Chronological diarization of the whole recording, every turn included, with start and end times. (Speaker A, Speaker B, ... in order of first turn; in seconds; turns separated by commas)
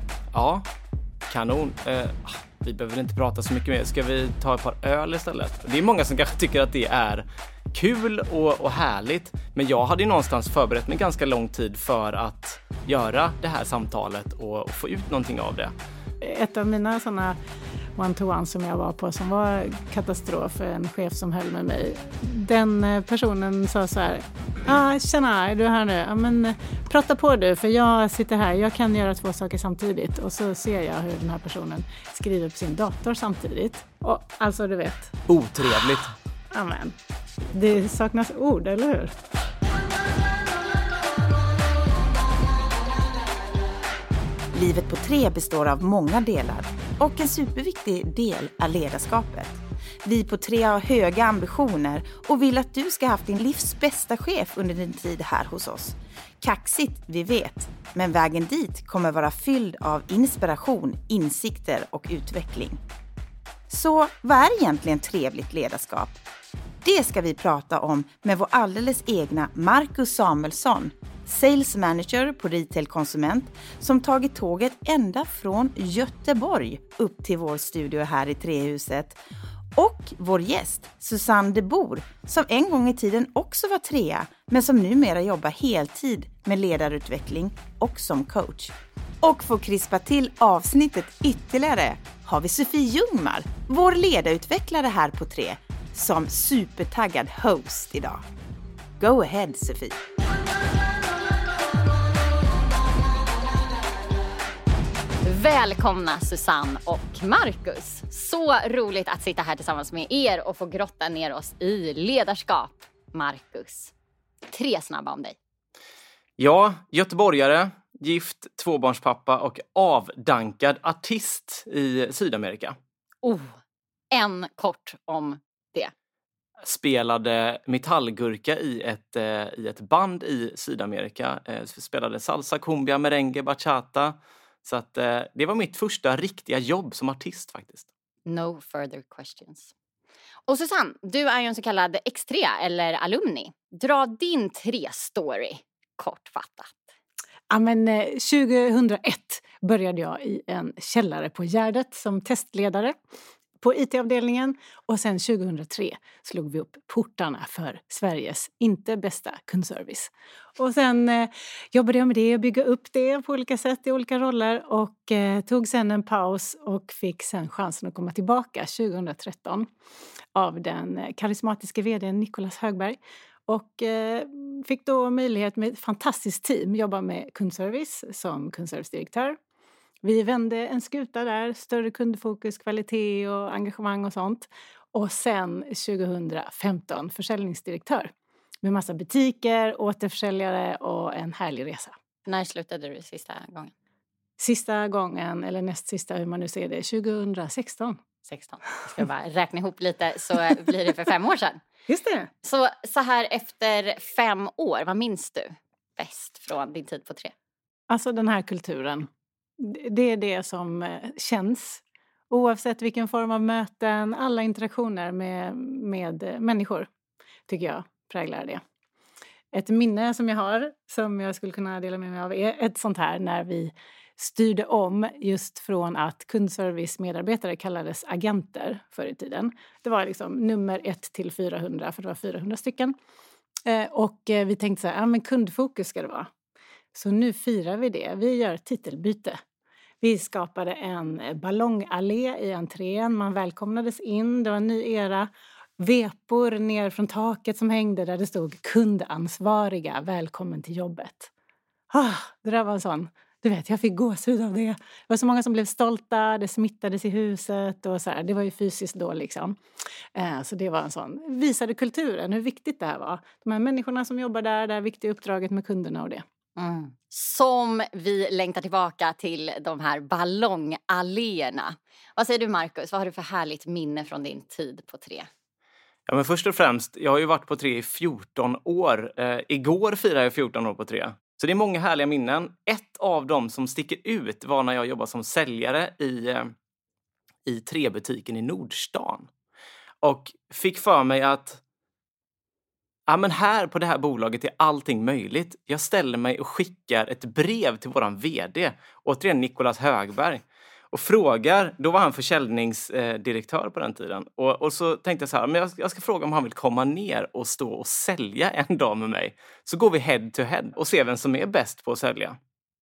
Speaker A: 0.3-0.7, Speaker A: 1.3-15.7, Speaker B: 16.2-17.4, Speaker B: 18.0-35.2, Speaker A: 35.3-36.1, Speaker B: 36.5-37.0, Speaker B: 37.5-39.2, Speaker C: 44.5-62.8, Speaker C: 63.7-66.2, Speaker C: 66.8-79.2, Speaker C: 79.8-98.2, Speaker C: 99.0-100.0, Speaker D: 105.2-113.9, Speaker D: 114.5-115.4, Speaker A: 116.4-122.8, Speaker D: 123.2-123.5, Speaker D: 124.1-125.9, Speaker A: 126.6-137.9, Speaker D: 138.2-139.7, Speaker D: 140.5-146.8, Speaker B: 147.5-152.9, Speaker B: 153.6-169.7, Speaker B: 170.3-179.4, Speaker B: 180.0-188.1, Speaker B: 188.6-191.9, Speaker D: 192.2-193.7, Speaker B: 194.4-198.0, Speaker D: 198.2-201.6, Speaker B: 201.9-202.3, Speaker D: 202.4-207.3, Speaker B: 207.9-209.1, Speaker B: 209.6-216.9, Speaker B: 217.5-218.6, Speaker B: 219.5-232.9, Speaker B: 233.7-236.3, Speaker B: 236.9-239.4, Speaker B: 240.0-251.3, Speaker B: 251.9-259.6, Speaker B: 260.1-266.2, Speaker D: 266.6-275.3, Speaker A: 276.1-286.5, Speaker A: 287.4-289.3, Speaker A: 290.0-291.6, Speaker A: 293.1-312.4